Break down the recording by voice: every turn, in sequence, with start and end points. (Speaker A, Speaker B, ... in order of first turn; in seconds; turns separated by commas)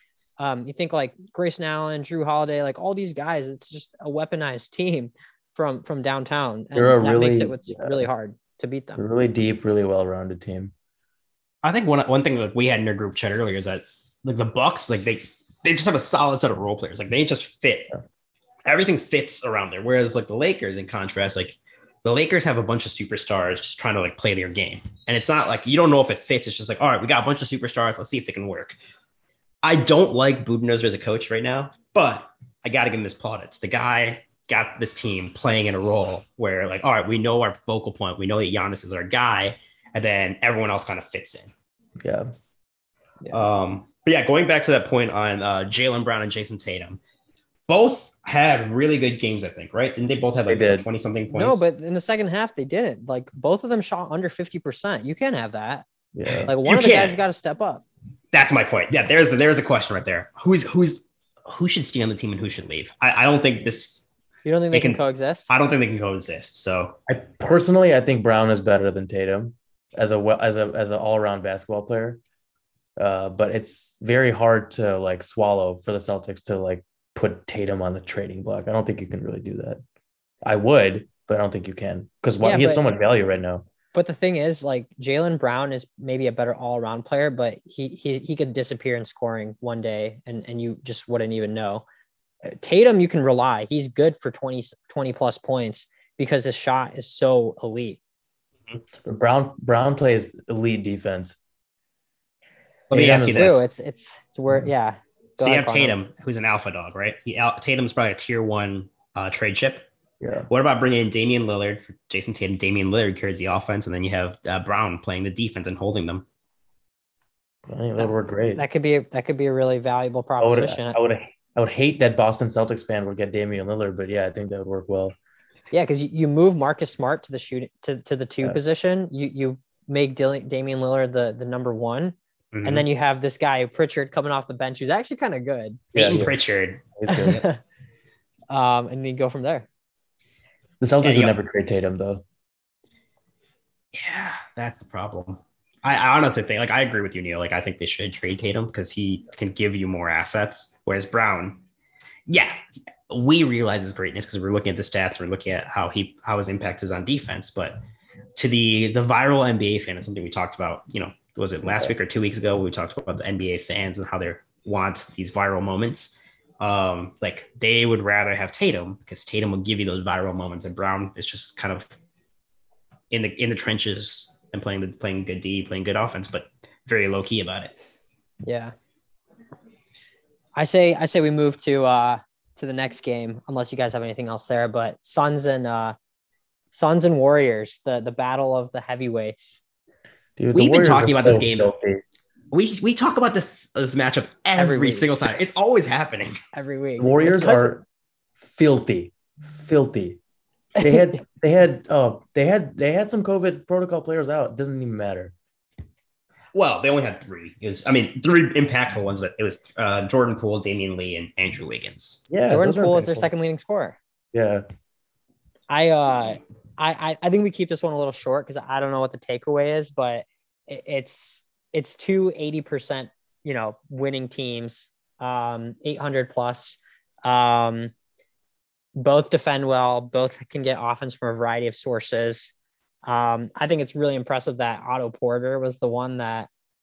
Speaker A: 0.4-9.0, Speaker B: 6.7-8.0, Speaker B: 9.0-10.7, Speaker C: 11.6-17.9, Speaker C: 18.6-28.8, Speaker C: 29.6-41.5, Speaker B: 42.0-42.3, Speaker C: 43.3-47.0, Speaker C: 47.7-51.7, Speaker B: 50.5-50.9, Speaker A: 51.3-55.9, Speaker B: 56.1-56.5, Speaker A: 56.5-57.8, Speaker C: 56.6-57.2, Speaker C: 58.3-64.1, Speaker A: 64.4-65.5, Speaker C: 64.7-67.0, Speaker B: 67.1-72.2, Speaker B: 73.0-79.8, Speaker B: 80.4-83.6, Speaker A: 82.4-82.8, Speaker A: 83.9-91.8, Speaker A: 92.4-98.0, Speaker B: 99.0-101.3, Speaker C: 102.9-103.7, Speaker B: 102.9-103.5, Speaker A: 102.9-106.0, Speaker C: 105.4-109.9, Speaker B: 110.2-110.5, Speaker C: 110.5-116.2, Speaker B: 117.7-118.6, Speaker A: 118.0-121.0, Speaker B: 120.4-125.2, Speaker A: 125.7-135.9, Speaker C: 132.5-132.8, Speaker C: 135.9-137.4, Speaker B: 135.9-136.4, Speaker B: 136.9-137.4, Speaker A: 137.1-137.6, Speaker A: 138.5-139.7, Speaker B: 140.8-142.2, Speaker C: 141.0-141.4, Speaker C: 143.9-151.6, Speaker C: 152.3-157.8, Speaker C: 158.3-171.9, Speaker B: 161.7-161.9, Speaker C: 173.1-177.7, Speaker A: 178.4-178.7, Speaker A: 180.5-185.9, Speaker A: 186.7-189.6, Speaker B: 190.4-192.0, Speaker C: 190.5-191.7, Speaker C: 192.5-196.4, Speaker A: 194.6-195.1, Speaker A: 196.5-197.7, Speaker B: 197.0-197.8, Speaker B: 198.4-200.2, Speaker A: 200.8-201.2, Speaker B: 200.8-205.3, Speaker C: 206.5-212.2, Speaker B: 212.3-213.3, Speaker A: 212.5-214.0, Speaker B: 214.3-214.6, Speaker A: 215.7-227.9, Speaker A: 228.9-232.5, Speaker A: 233.0-236.5